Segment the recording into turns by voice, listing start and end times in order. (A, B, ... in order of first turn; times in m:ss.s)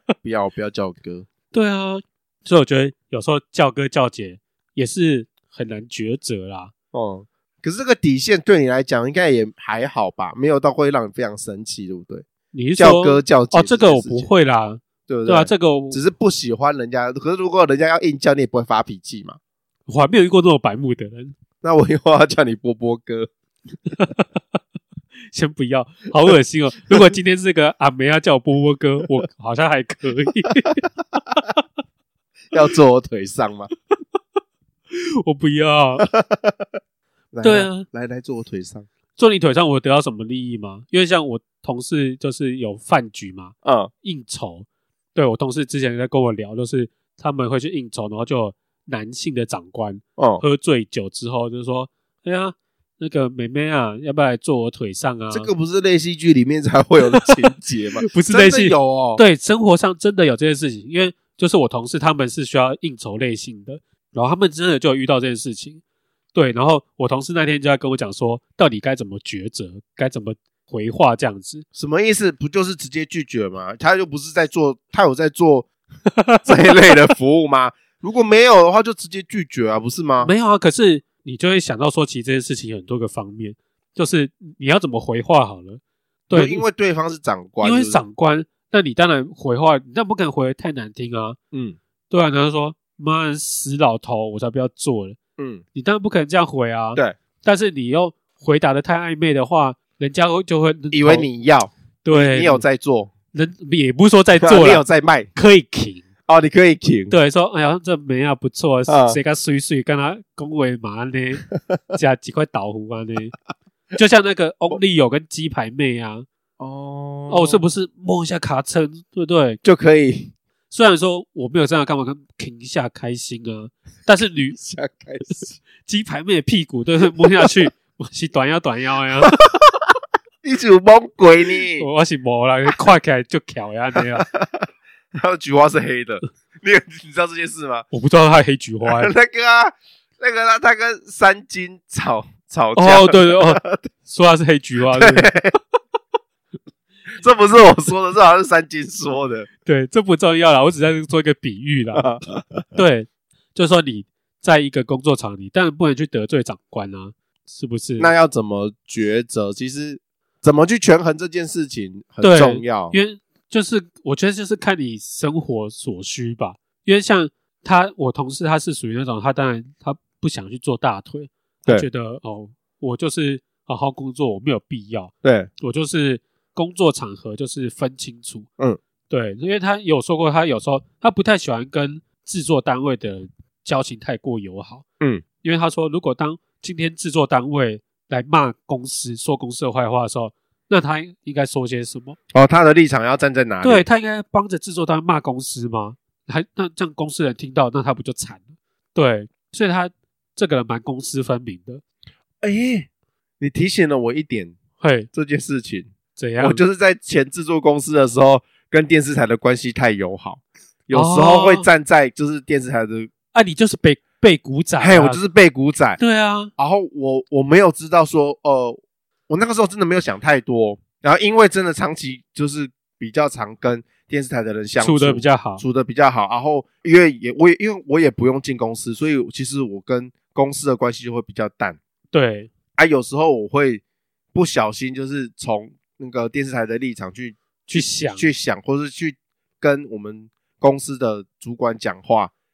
0:00.2-0:01.3 A
0:01.5-0:06.7 B
0:06.9-0:12.2 A
0:12.5-0:16.0 B
0:12.8-0:14.3 A
0:15.1-0:19.4 A
0:19.9-0:21.4 B
0:21.6-0:23.3 A
0:25.3-0:31.6 B
0:32.5-0:33.7 A
0:34.9-0:36.1 B
0:36.0-0:36.8 A
0:37.3-0:38.9 A
0:37.4-0:37.9 B
0:39.2-0:55.5 B
0:43.6-0:43.9 A
0:50.2-0:50.4 A
0:55.3-0:59.2 A
0:57.0-0:57.5 B
0:58.0-1:05.8 B
1:06.3-1:11.6 B
1:11.8-1:15.7 A
1:16.1-1:16.7 B
1:16.4-1:20.3 A
1:20.2-1:26.6 B
1:26.3-1:28.0 A
1:27.6-1:31.4 B
1:31.5-1:31.8 A
1:32.1-1:35.2 B
1:35.4-1:35.6 A
1:35.8-1:41.3 B
1:40.9-1:43.1 A
1:42.0-1:42.6 B
1:43.3-1:44.8 B
1:44.4-1:45.3 A
1:45.4-1:46.0 B
1:46.3-1:47.1 A
1:47.1-1:53.4 B
1:48.9-1:49.2 A
1:53.9-1:56.3 B
1:56.6-1:57.6 A
1:57.3-1:59.6 B
1:59.6-2:00.3 A
2:00.7-2:04.6 B
2:04.5-2:05.6 A
2:05.8-2:09.4 B
2:10.4-2:11.9 A
2:11.8-2:14.3 B
2:14.0-2:17.8 A
2:17.9-2:19.1 B
2:18.9-2:23.9 A
2:22.8-2:25.3 B
2:24.9-2:25.6 A
2:27.2-2:29.5 A
2:29.6-2:32.1 B
2:32.0-2:32.7 A
2:32.8-2:38.1 B
2:38.0-2:42.9 A
2:42.2-2:58.5 B
2:55.2-2:55.5 A
2:59.1-3:04.8 B
3:05.4-3:12.2 B
3:12.3-3:13.8 A
3:13.6-3:18.4 B
3:19.0-3:21.8 B
3:22.4-3:22.9 A
3:23.4-3:24.6 A
3:24.8-3:25.1 B
3:25.1-3:33.1 A
3:26.2-3:26.6 B
3:30.9-3:31.7 B
3:33.3-3:35.2 B
3:34.8-3:36.0 A
3:36.0-3:36.5 B
3:36.6-3:51.8 A
3:44.8-3:45.6 B
3:52.1-3:52.5 B
3:52.8-3:53.8 A
3:54.3-4:02.3 A
3:57.7-3:58.3 B